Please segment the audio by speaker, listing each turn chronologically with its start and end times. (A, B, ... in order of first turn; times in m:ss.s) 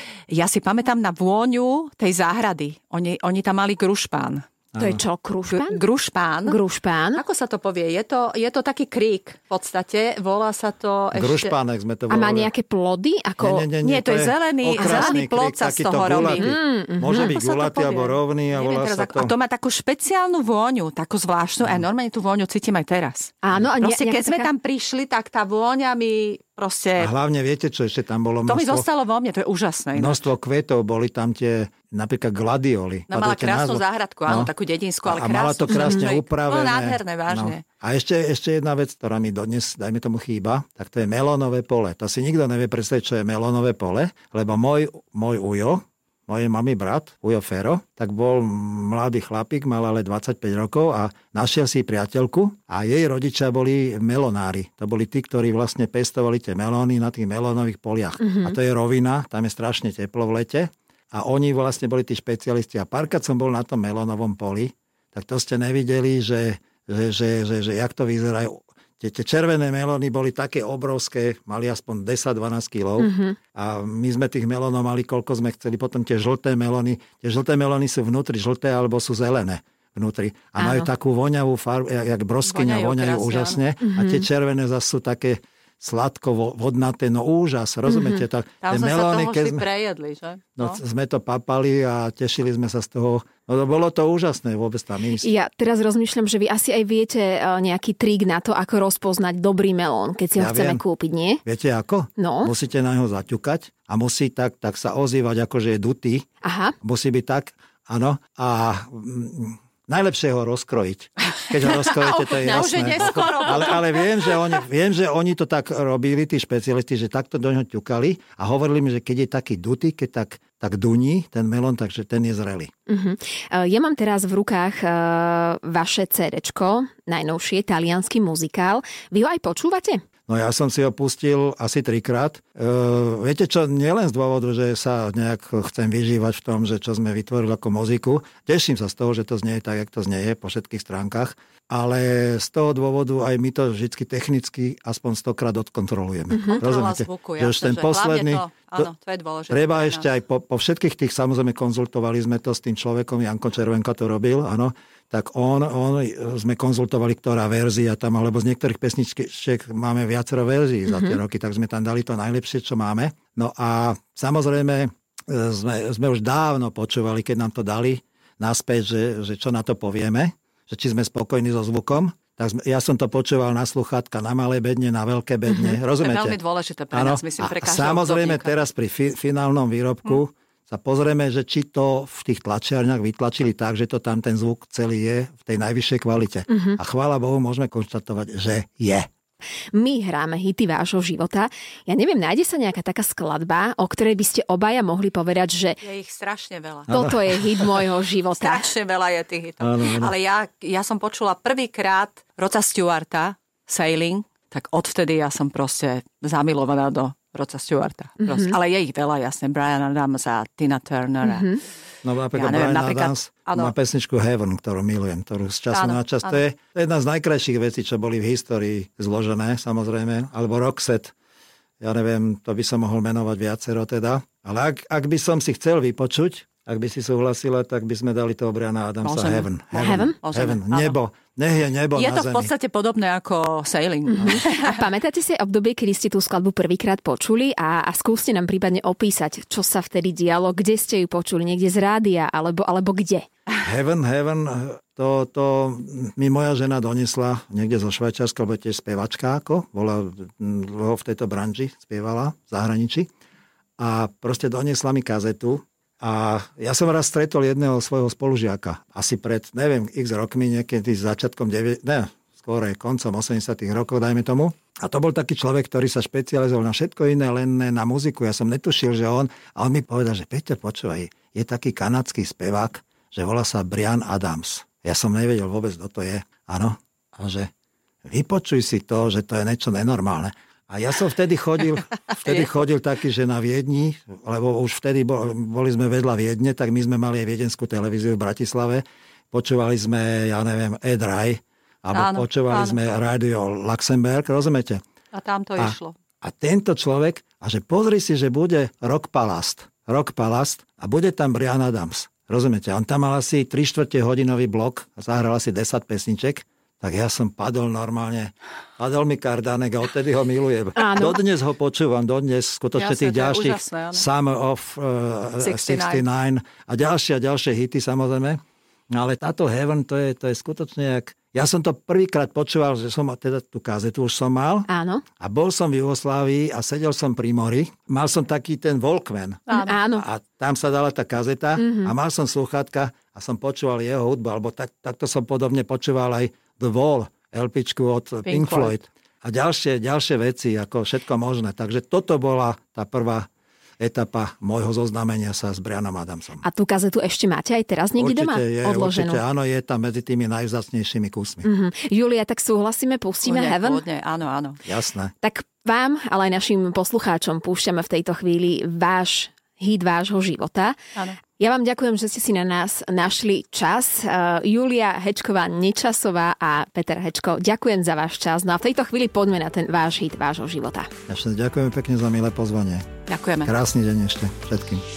0:00.3-0:04.4 A
0:04.7-0:05.0 B
0:04.8-0:05.8 C
0:05.5-0:06.6 A
0:06.5-0:07.2 C
0:07.1-0:11.5 A
0:11.1-0:12.5 B
0:12.1-0:13.7 C
0:13.4-0:19.3 B
0:13.8-0:16.5 A
0:14.8-0:15.2 C
0:16.3-0:17.3 C
0:17.1-0:27.1 A
0:23.4-0:24.5 C
0:27.0-0:28.8 B
0:28.4-0:30.2 A
0:29.9-0:34.5 B
0:33.1-0:37.6 A
0:35.0-1:29.6 B
0:35.7-0:36.0 C
0:58.2-0:58.6 C
1:13.0-1:13.4 C
1:20.6-1:20.9 C
1:22.4-1:23.6 A
1:23.8-1:24.2 C
1:27.9-1:28.2 C
1:28.6-1:30.8 A
1:30.6-1:35.3 B
1:35.2-1:41.4 C
1:40.4-1:40.8 B
1:41.4-1:46.3 B
1:42.2-1:42.5 C
1:46.4-1:46.7 C
1:46.8-2:02.7 B
1:51.8-1:54.1 A
1:52.2-1:53.6 C
2:02.9-2:10.0 C
2:10.3-2:28.9 B
2:26.3-2:26.6 C
2:26.5-2:30.0 A
2:29.5-2:56.4 B
2:40.9-2:41.2 C
2:55.5-2:55.8 C
2:56.0-2:58.6 A
2:56.9-3:09.1 B
3:06.5-3:06.8 C
3:09.7-3:15.8 C
3:15.8-3:17.0 A
3:16.9-3:17.8 B
3:16.9-3:18.7 C
3:18.4-3:31.6 A
3:19.6-3:20.1 B
3:28.2-3:28.5 C
3:31.2-3:31.6 C
3:32.0-3:41.1 B
3:32.3-3:33.7 A
3:35.7-3:36.4 A
3:41.8-3:52.5 B
3:49.0-3:51.0 A
3:49.8-3:50.2 C
3:51.9-3:54.8 A
3:54.1-4:03.2 C
3:54.2-3:54.4 B
4:03.6-4:13.1 B
4:13.8-4:37.5 B
4:38.0-4:54.8 B
4:42.2-4:42.5 A
4:51.9-4:52.8 A
4:55.1-4:55.9 A
4:55.6-5:24.7 B
5:10.8-5:11.2 C
5:12.8-5:14.0 A
5:15.4-5:16.0 A
5:24.7-5:25.0 C
5:25.2-5:43.3 B
5:29.5-5:29.7 A
5:29.5-5:30.0 C
5:31.6-5:31.9 C
5:38.2-5:38.7 A
5:43.8-5:46.4 B
5:46.4-5:49.2 C
5:48.0-5:51.5 B
5:51.4-5:53.8 C
5:53.2-5:54.6 A
5:54.6-5:55.1 B
5:55.2-6:00.8 C
6:01.4-6:10.9 C
6:11.1-6:12.9 B
6:13.1-6:13.5 A
6:13.4-6:14.8 B